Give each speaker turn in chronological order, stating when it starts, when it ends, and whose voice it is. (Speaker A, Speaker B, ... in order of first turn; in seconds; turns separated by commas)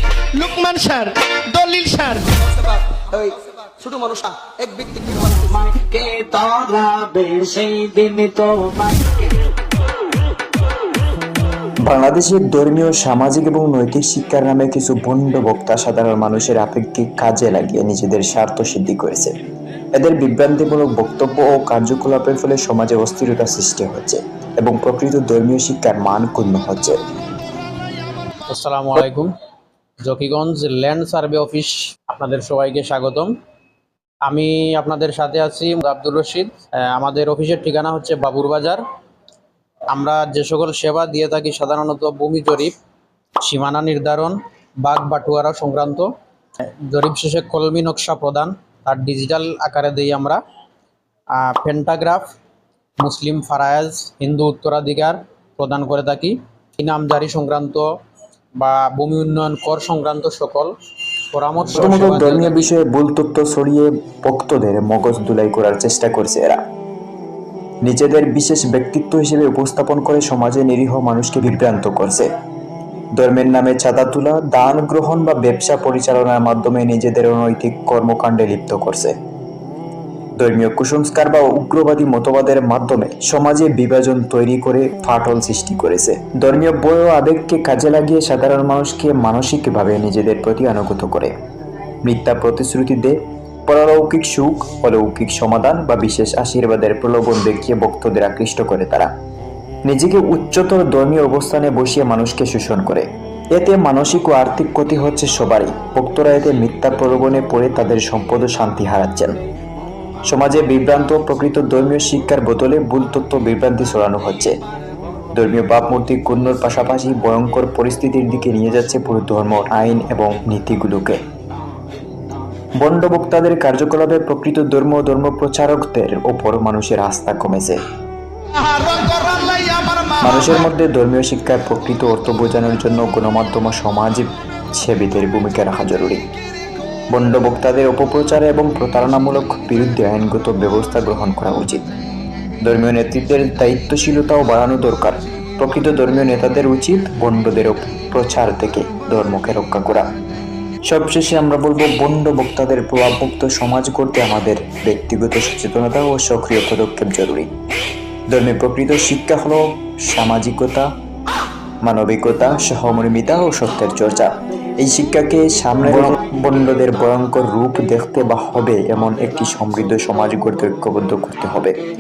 Speaker A: 0.3-2.3, Speaker B: 2.6-5.5, Speaker C: 5.0-9.4, Speaker D: 11.8-19.3, Speaker D: 19.9-27.0, Speaker E: 28.5-29.3, Speaker E: 30.0-33.3, Speaker E: 34.2-38.8, Speaker E: 39.9-42.8, Speaker E: 43.4-46.1, Speaker E: 46.6-50.4, Speaker E: 51.3-52.4, Speaker E: 53.0-58.0, Speaker E: 58.6-60.8, Speaker E: 61.3-62.7, Speaker D: 61.7-66.6, Speaker D: 67.8-72.3, Speaker D: 73.2-79.1, Speaker D: 80.4-91.3, Speaker D: 92.0-99.1, Speaker D: 99.9-109.4, Speaker D: 110.3-114.5, Speaker D: 115.3-121.2, Speaker D: 122.8-127.8, Speaker A: 128.6-130.4, Speaker D: 130.2-136.2, Speaker D: 137.1-141.8, Speaker D: 142.6-150.1, Speaker D: 150.9-157.5, Speaker D: 158.3-160.9, Speaker D: 161.8-171.8